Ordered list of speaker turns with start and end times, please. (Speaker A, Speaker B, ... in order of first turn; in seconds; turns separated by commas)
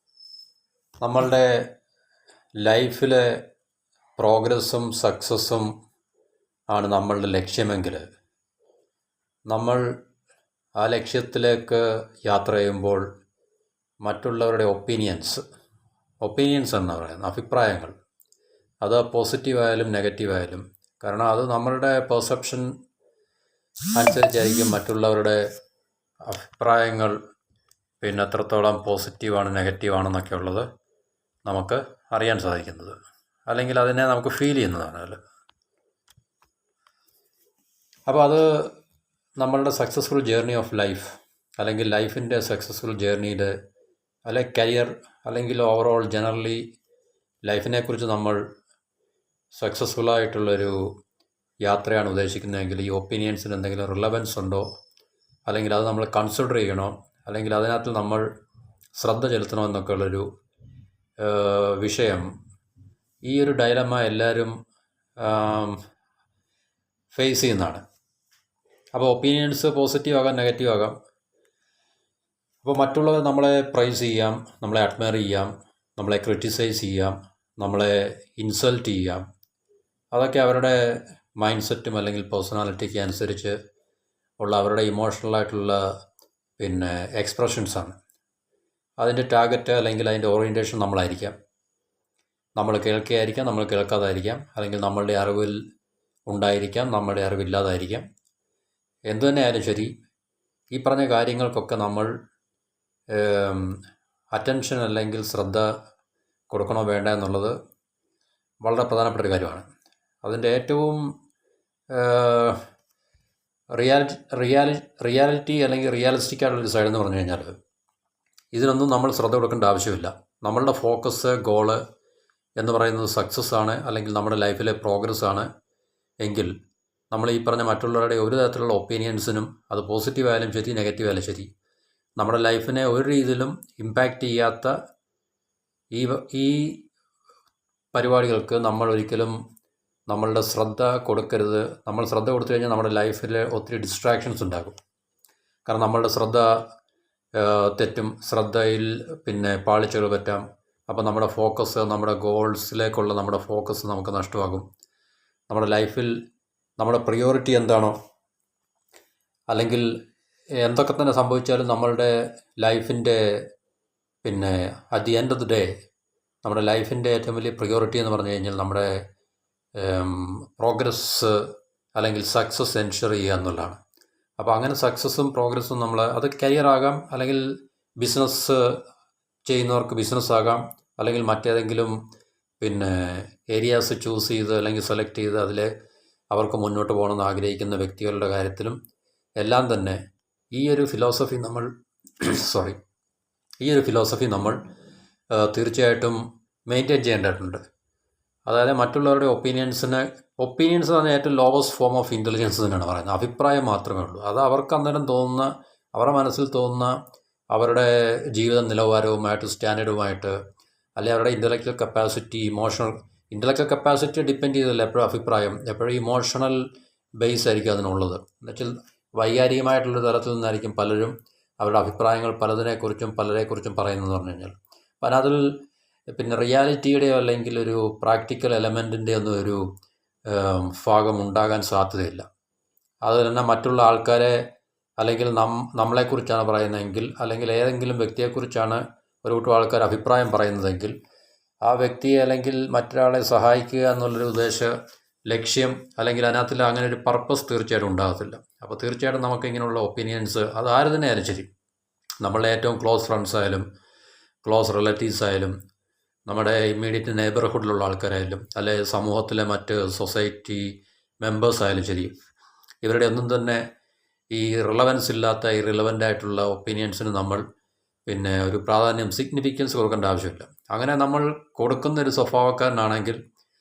Speaker A: 1.0-1.6, Speaker A: 2.6-3.4, Speaker A: 4.2-5.7, Speaker A: 6.7-8.0, Speaker A: 9.5-9.8, Speaker A: 10.8-13.0, Speaker A: 14.0-15.4, Speaker A: 16.2-17.9, Speaker A: 18.8-22.7, Speaker A: 23.9-25.5, Speaker A: 26.2-27.1, Speaker A: 28.0-30.7, Speaker A: 31.4-32.9, Speaker A: 33.5-35.2, Speaker A: 38.1-38.7, Speaker A: 39.4-43.5, Speaker A: 44.2-46.7, Speaker A: 47.4-48.4, Speaker A: 49.5-50.8, Speaker A: 51.6-54.7, Speaker A: 55.5-58.2, Speaker A: 59.0-60.2, Speaker A: 61.2-62.2, Speaker A: 63.2-64.5, Speaker A: 65.2-65.8, Speaker A: 67.1-67.8, Speaker A: 68.9-70.9, Speaker A: 72.6-79.2, Speaker A: 80.1-83.5, Speaker A: 84.4-85.8, Speaker A: 86.6-88.0, Speaker A: 89.0-91.3, Speaker A: 92.6-95.6, Speaker A: 96.3-98.0, Speaker A: 99.1-99.9, Speaker A: 100.7-102.1, Speaker A: 103.1-103.8, Speaker A: 104.3-105.7, Speaker A: 106.5-107.5, Speaker A: 108.6-109.6, Speaker A: 110.2-111.0, Speaker A: 111.9-112.6, Speaker A: 113.7-117.5, Speaker A: 118.5-121.8, Speaker A: 122.6-125.5, Speaker A: 126.2-126.5, Speaker A: 127.1-131.5, Speaker A: 132.2-134.7, Speaker A: 135.9-136.8, Speaker A: 137.9-139.3, Speaker A: 140.1-144.7, Speaker A: 145.7-146.5, Speaker A: 147.3-154.6, Speaker A: 155.5-156.1, Speaker A: 156.8-157.9, Speaker A: 159.5-159.9, Speaker A: 160.6-163.2, Speaker A: 164.2-165.7, Speaker A: 166.4-168.9, Speaker A: 169.8-171.4, Speaker A: 171.9-173.8, Speaker A: 174.4-177.4, Speaker A: 178.0-178.6, Speaker A: 179.4-181.9, Speaker A: 182.6-185.7, Speaker A: 186.3-188.8, Speaker A: 189.4-190.0, Speaker A: 190.5-191.7, Speaker A: 192.2-192.8, Speaker A: 193.6-194.6, Speaker A: 195.3-197.6, Speaker A: 198.5-206.9, Speaker A: 207.5-210.4, Speaker A: 211.0-216.7, Speaker A: 217.2-225.6, Speaker A: 226.1-229.7, Speaker A: 230.3-232.2, Speaker A: 233.0-234.4, Speaker A: 235.0-240.9, Speaker A: 241.6-244.7, Speaker A: 245.3-251.5, Speaker A: 252.2-253.6, Speaker A: 254.4-255.5, Speaker A: 256.3-262.1, Speaker A: 262.8-263.6, Speaker A: 264.3-267.4, Speaker A: 268.1-273.2